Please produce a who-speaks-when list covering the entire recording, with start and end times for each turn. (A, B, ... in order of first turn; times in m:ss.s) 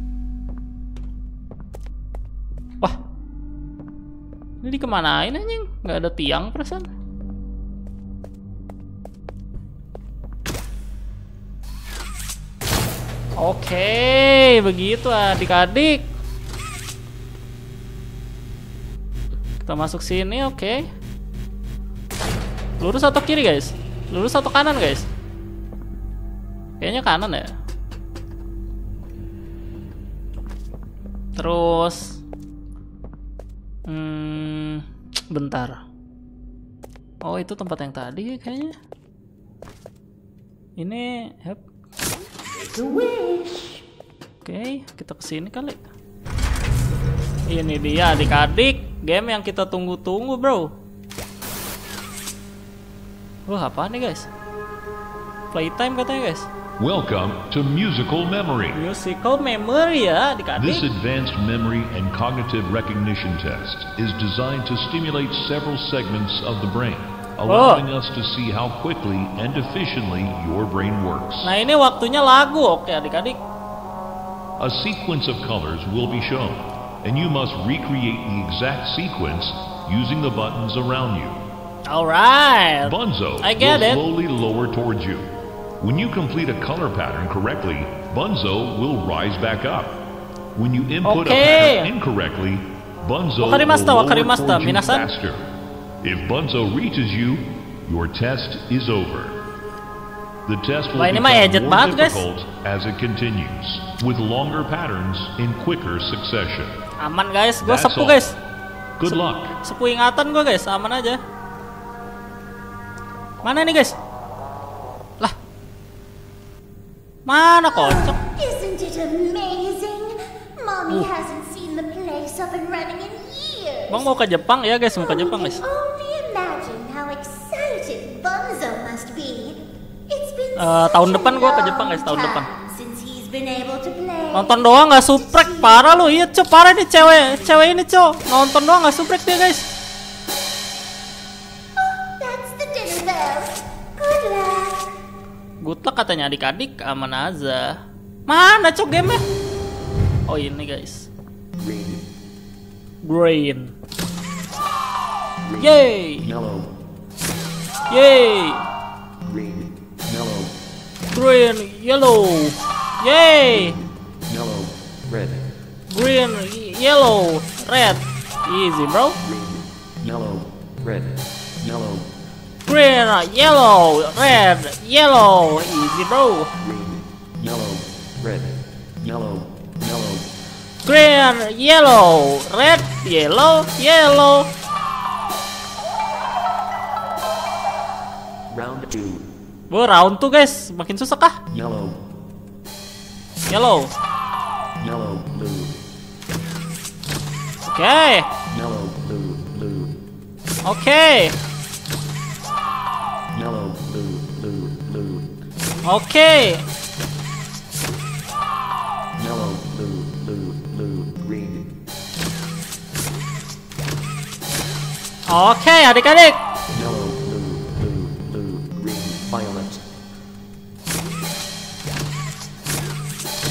0:04.6-0:06.9 A
0:13.4-0:16.1 A
0:19.6-0:20.9 A
0:22.8-0:25.1 A
0:26.8-0:27.5 A
0:31.4-0:32.2 A
0:33.9-0:35.8 A
0:37.2-0:38.8 A
0:40.8-0:41.6 A
0:44.4-0:45.8 A
0:47.5-0:50.7 A
0:53.5-0:54.3 A
0:55.5-0:56.5 A
0:56.8-0:58.8 B
0:58.8-1:00.9 A
1:00.6-1:11.5 B
1:07.5-1:07.8 A
1:11.4-1:13.4 A
1:14.6-1:21.4 B
1:21.9-1:24.0 A
1:22.8-1:30.0 B
1:30.6-1:35.4 B
1:31.0-1:31.9 A
1:33.4-1:35.1 A
1:36.0-1:39.4 B
1:40.5-1:46.8 B
1:40.9-1:42.2 A
1:47.0-1:48.4 A
1:47.6-1:48.3 B
1:49.0-1:49.6 B
1:49.1-1:51.2 A
1:53.4-1:54.0 A
1:57.3-1:58.2 A
1:57.7-2:04.1 C
2:03.9-2:05.6 A
2:04.9-2:16.2 C
2:10.6-2:12.5 A
2:14.3-2:19.7 A
2:21.8-2:24.9 C
2:25.6-2:27.8 A
2:28.3-2:29.2 A
2:30.3-2:31.1 A
2:31.6-2:32.0 D
2:33.0-2:33.7 A
2:35.4-2:36.7 D
2:35.6-2:36.3 A
2:37.9-2:38.7 A
2:39.2-2:40.5 D
2:41.1-2:43.8 A
2:44.3-2:45.5 D
2:45.9-2:49.2 A
2:49.2-2:52.1 D
2:52.7-2:56.5 A
2:56.6-3:00.3 D
3:00.8-3:04.5 A
3:08.5-3:09.3 D
3:09.7-3:11.4 A
3:11.5-3:12.0 D
3:13.5-3:13.9 A
3:14.8-3:15.8 D
3:17.6-3:18.3 A
3:18.5-3:19.9 D
3:20.6-3:21.4 A
3:23.3-3:25.3 D
3:25.9-3:26.6 A
3:29.2-3:31.7 D
3:35.3-3:36.4 A
3:36.7-3:39.8 D